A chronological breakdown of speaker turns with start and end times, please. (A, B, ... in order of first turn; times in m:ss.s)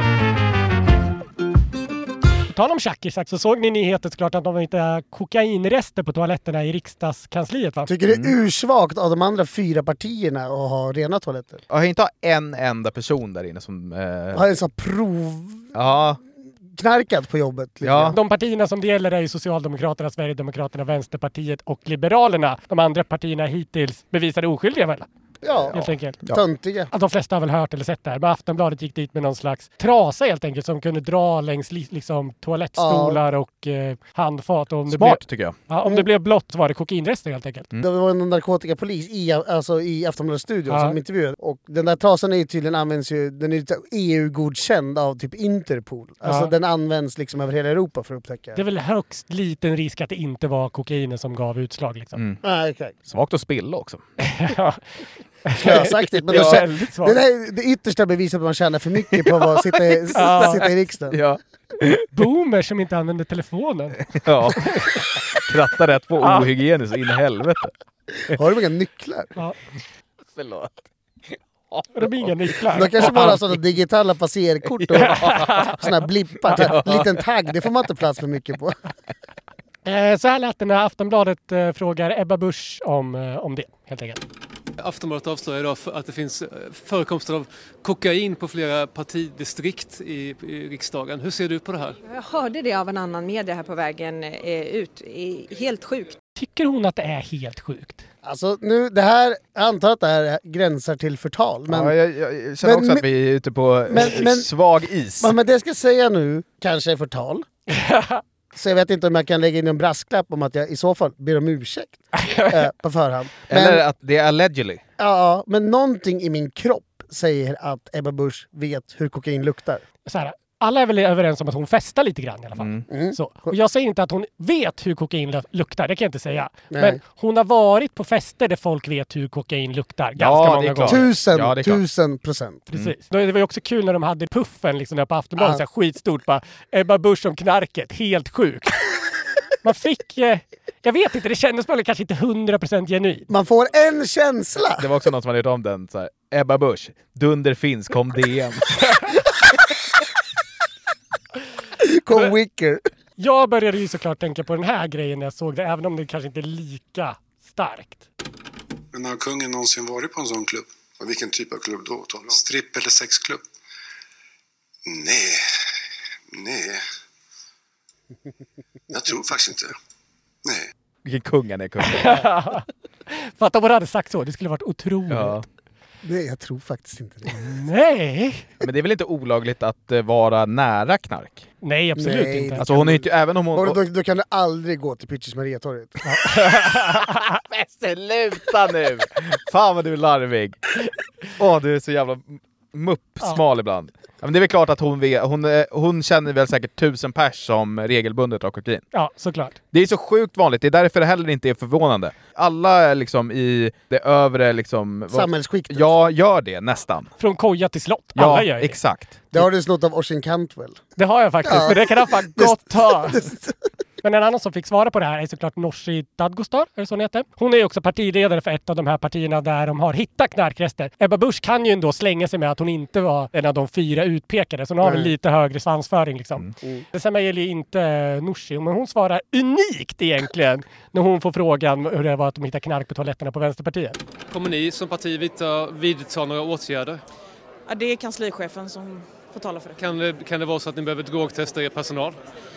0:02.5-0:07.9 A
0:07.9-0:11.6 B
0:11.7-0:14.5 C
0:14.3-0:15.7 B
0:15.7-0:16.2 C
0:16.7-0:18.2 B
0:17.8-0:18.2 C
0:18.1-0:25.1 A
0:25.4-0:25.7 B
0:25.7-0:26.2 A
0:25.7-0:26.4 C
0:26.3-0:26.9 B
0:26.9-0:37.7 A
0:32.8-0:33.2 B
0:34.9-0:35.6 C
0:37.8-0:48.6 B
0:40.7-0:41.0 A
0:46.2-0:46.5 A
0:48.6-0:52.2 A
0:52.2-0:52.4 C
0:52.4-0:53.0 B
0:53.1-0:54.0 C
0:54.2-0:54.8 A
0:55.5-0:57.2 A
0:55.6-1:01.2 B
0:56.3-0:56.6 C
0:59.1-1:02.1 C
1:00.2-1:00.7 A
1:02.1-1:04.0 A
1:04.1-1:07.7 C
1:04.6-1:04.9 A
1:08.3-1:09.3 B
1:10.4-1:10.8 C
1:11.3-1:12.3 C
1:12.0-1:13.4 A
1:12.7-1:18.8 B
1:12.9-1:13.6 C
1:14.7-1:15.7 C
1:15.0-1:15.8 A
1:16.5-1:17.2 C
1:19.9-1:24.2 A
1:24.8-1:32.0 D
1:32.0-1:36.2 E
1:36.4-1:38.1 A
1:38.2-1:41.9 B
1:41.7-1:45.3 C
1:42.6-1:43.1 B
1:43.9-1:44.5 B
1:45.2-1:47.5 B
1:47.7-1:48.2 A
1:48.5-1:53.8 B
1:52.2-1:52.7 A
1:53.5-1:54.8 C
1:55.0-1:59.8 B
2:00.1-2:11.1 A
2:02.6-2:02.8 C
2:02.9-2:03.5 B
2:06.7-2:07.0 B
2:10.2-2:11.8 C
2:10.9-2:12.6 B
2:12.7-2:18.8 A
2:15.4-2:15.6 B
2:19.6-2:23.3 A
2:23.3-2:24.9 B
2:24.8-2:29.0 C
2:31.8-2:32.8 B
2:33.2-2:38.1 A
2:38.9-2:43.4 F
2:44.9-2:45.4 F
2:46.3-2:46.8 F
2:48.9-2:49.8 F
2:51.0-2:52.3 C
2:51.8-2:55.4 A
2:55.1-2:55.4 C
2:56.0-2:57.5 B
2:57.4-2:58.4 A
2:58.6-3:01.5 C
3:01.6-3:02.6 A
3:02.0-3:06.0 B
3:02.6-3:03.8 C
3:06.0-3:07.2 A
3:07.5-3:10.7 C
3:11.4-3:18.8 C
3:18.9-3:19.6 A
3:19.7-3:27.1 C
3:25.1-3:25.9 B
3:27.2-3:28.8 A
3:28.2-3:29.2 C
3:29.3-3:30.8 B
3:31.0-3:33.2 A
3:31.4-3:33.6 B
3:34.0-3:54.0 A
3:44.8-3:45.1 B
3:54.3-3:57.0 D
3:57.7-3:59.8 G
3:59.8-4:02.2 D